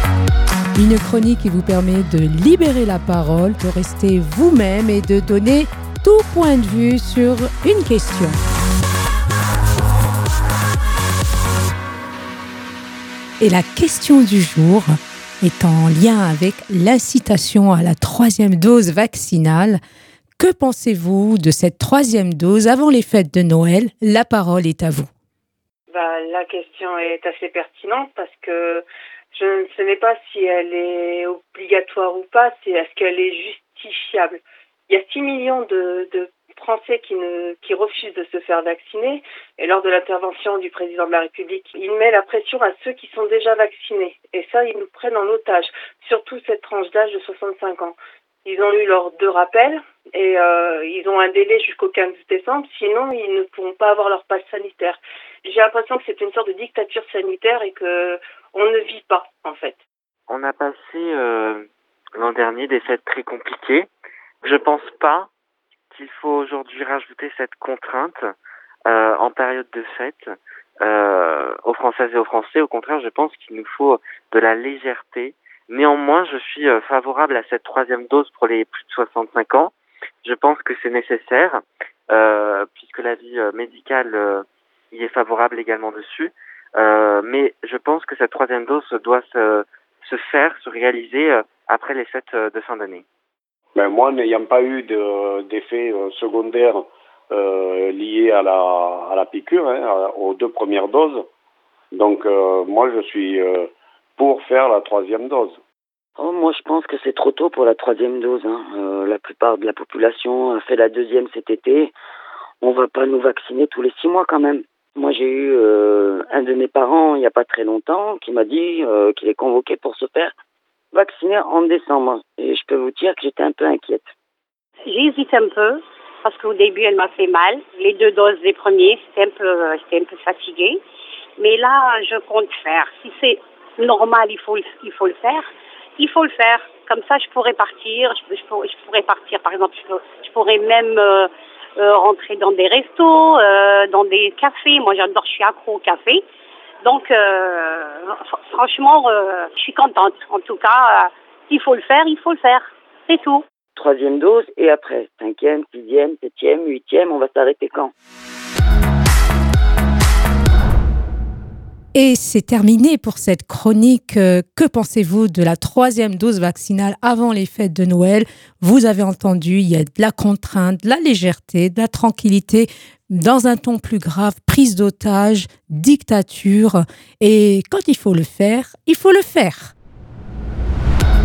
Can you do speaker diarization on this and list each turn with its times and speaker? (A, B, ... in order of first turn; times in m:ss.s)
0:00.7-0:08.4 A
0:13.4-0:19.8 A
0:20.4-0:25.1 A
0:25.9-0:59.8 B
1:00.3-1:03.9 C
1:04.4-1:05.3 C
1:05.9-1:08.2 C
1:08.9-1:33.0 C
1:33.7-1:41.2 D
1:41.9-1:45.6 D
1:46.2-1:51.9 E
1:52.6-2:00.3 E
2:00.9-2:04.1 E
2:04.8-2:10.8 F
2:11.4-2:26.2 F
2:26.8-2:33.4 F
2:33.8-2:37.9 E
2:41.9-2:59.7 A